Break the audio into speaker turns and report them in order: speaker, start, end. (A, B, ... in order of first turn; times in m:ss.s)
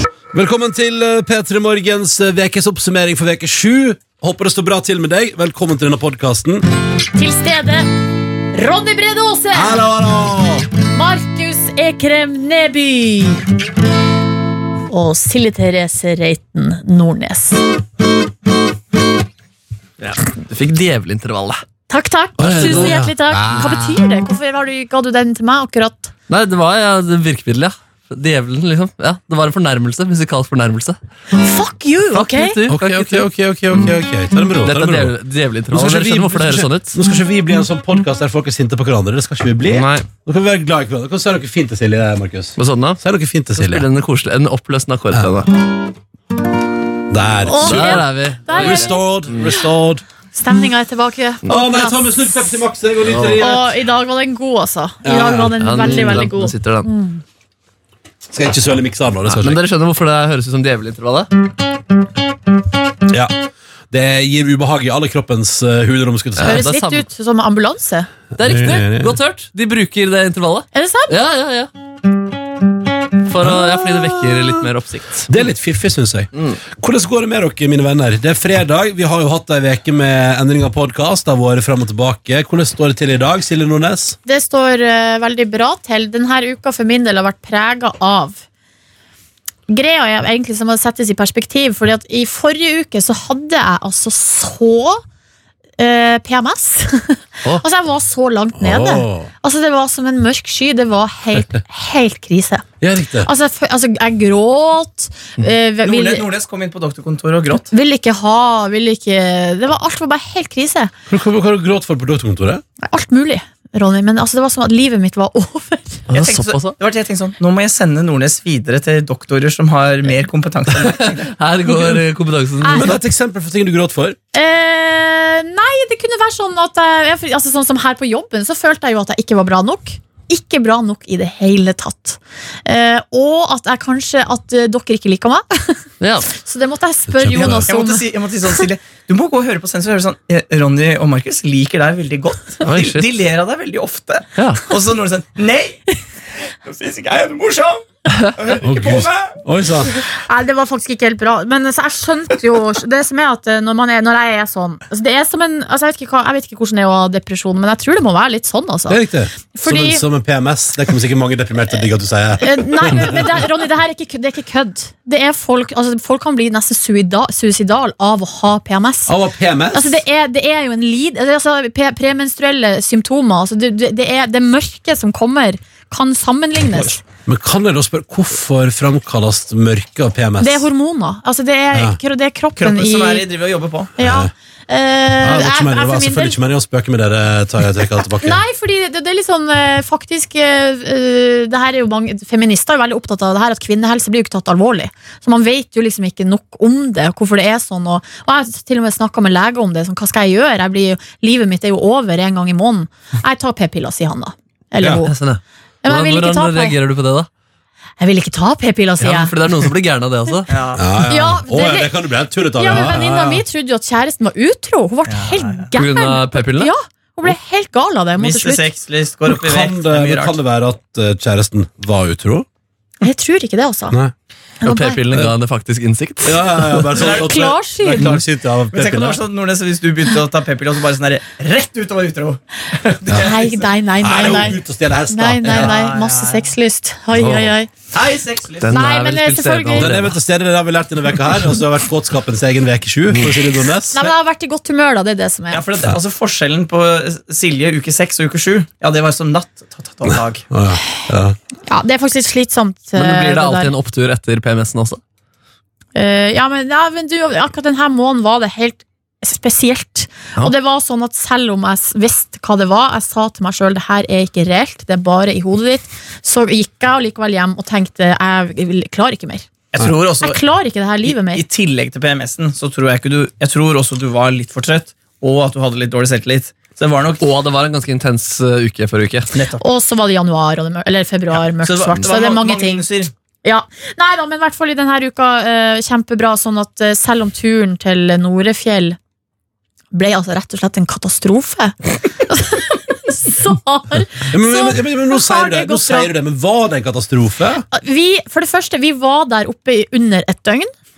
0:00.3-0:06.7 A
0:07.2-0:07.8 B
0:08.5-0:09.9 B
0:09.5-0:10.7 A
0:10.9-0:13.4 B
0:14.9-0:17.6 B
0:20.0-0:21.6 C
0:21.9-0:26.1 B
0:22.4-0:23.8 A
0:22.6-0:23.0 C
0:26.3-0:31.0 C
0:31.4-0:32.6 B
0:32.1-0:33.9 C
0:32.7-0:35.1 A
0:34.6-0:37.0 C
0:35.7-0:43.8 A
0:39.7-0:40.1 C
0:42.6-0:43.0 C
0:43.6-0:45.5 C
0:47.1-0:50.0 A
0:47.4-0:49.0 B
0:47.6-0:49.4 C
0:50.3-0:52.5 B
0:51.5-0:53.7 A
0:53.0-0:53.4 C
0:53.4-0:57.2 B
0:55.0-0:56.3 A
0:55.6-0:56.9 C
0:58.3-0:59.6 A
0:59.3-1:01.3 C
1:03.1-1:03.3 A
1:03.9-1:06.7 A
1:06.4-1:07.1 C
1:06.4-1:08.1 B
1:08.4-1:11.7 C
1:08.4-1:09.2 A
1:10.7-1:11.2 B
1:13.3-1:15.3 C
1:13.4-1:14.4 A
1:15.3-1:24.2 A
1:24.3-1:28.4 B
1:29.7-1:35.0 B
1:35.8-1:42.6 B
1:38.6-1:39.3 A
1:42.8-1:43.3 A
1:43.2-1:46.3 B
1:45.8-1:47.7 D
1:47.7-1:50.9 B
1:51.1-1:52.6 A
1:52.8-1:56.0 B
1:56.1-1:56.7 C
1:56.1-2:01.3 D
2:00.8-2:02.9 C
2:02.6-2:02.9 B
2:02.7-2:04.2 A
2:04.3-2:18.1 B
2:16.0-2:16.3 C
2:17.1-2:17.7 A
2:17.4-2:25.8 D
2:22.6-2:23.1 C
2:24.4-2:24.6 C
2:26.6-2:29.4 D
2:28.6-2:29.9 A
2:30.2-2:39.0 B
2:38.9-2:43.4 A
2:39.5-2:40.0 B
2:42.4-2:49.1 B
2:49.1-2:50.0 A
2:49.7-2:57.0 B
2:57.2-3:00.7 A
3:00.4-3:03.2 B
3:02.6-3:03.9 D
3:04.0-3:06.4 B
3:04.0-3:04.3 A
3:05.2-3:08.4 A
3:08.2-3:25.1 B
3:24.8-3:25.1 A
3:25.0-3:27.3 C
3:25.8-3:26.8 B
3:28.0-3:29.3 B
3:29.0-3:30.5 C
3:30.5-3:30.8 D
3:30.8-3:33.4 A
3:31.1-3:31.9 B
3:32.5-3:38.6 B
3:35.1-3:35.7 D
3:35.8-3:36.7 C
3:38.2-3:40.4 D
3:39.2-3:42.4 A
3:43.0-3:44.0 B
3:44.6-3:45.0 B
3:44.6-3:46.9 C
3:46.2-3:49.2 A
3:47.0-3:48.2 B
3:48.7-3:53.7 D
3:53.1-3:54.6 B
3:54.0-3:55.8 A
3:55.1-3:57.7 B
3:55.5-3:56.4 D
3:57.2-3:57.5 C
3:57.9-3:58.7 D
3:58.6-4:00.1 C
3:58.7-4:00.0 B
3:59.8-4:04.0 A
4:03.9-4:05.6 B
4:05.5-4:10.4 D
4:10.0-4:11.4 A
4:11.7-4:13.7 B
4:13.0-4:15.0 C
4:15.9-4:29.5 B
4:29.7-4:30.4 D
4:30.2-4:31.4 B
4:31.0-4:37.2 D
4:37.2-4:39.3 C
4:39.3-4:39.6 D
4:39.6-4:42.8 B
4:41.6-4:43.1 D
4:43.4-4:49.0 B
4:49.9-4:56.1 B
4:54.3-4:57.6 A
4:57.7-5:00.7 B